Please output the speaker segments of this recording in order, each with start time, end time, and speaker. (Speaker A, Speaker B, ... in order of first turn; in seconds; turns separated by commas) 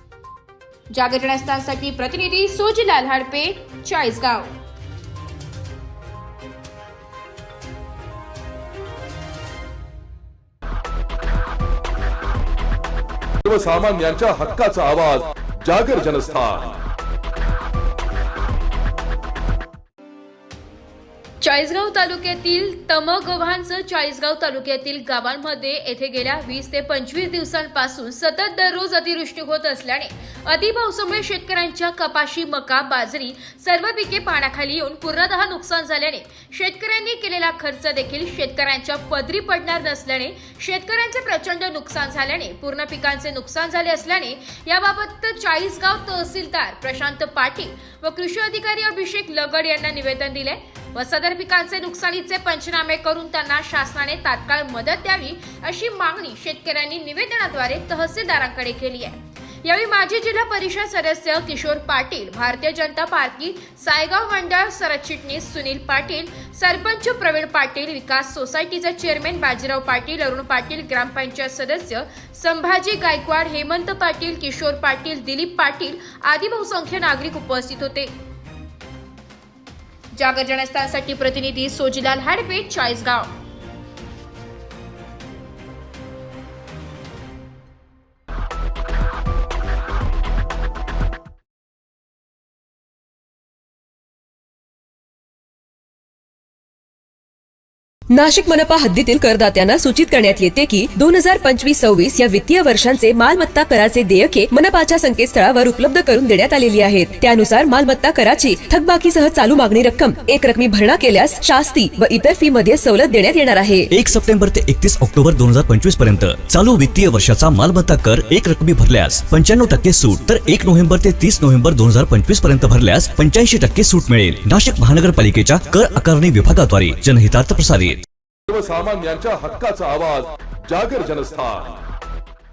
Speaker A: 0.9-4.5, Speaker B: 13.4-16.8, Speaker A: 21.4-78.1, Speaker A: 80.1-83.3, Speaker C: 98.1-113.9, Speaker D: 113.9-128.0, Speaker B: 128.5-131.8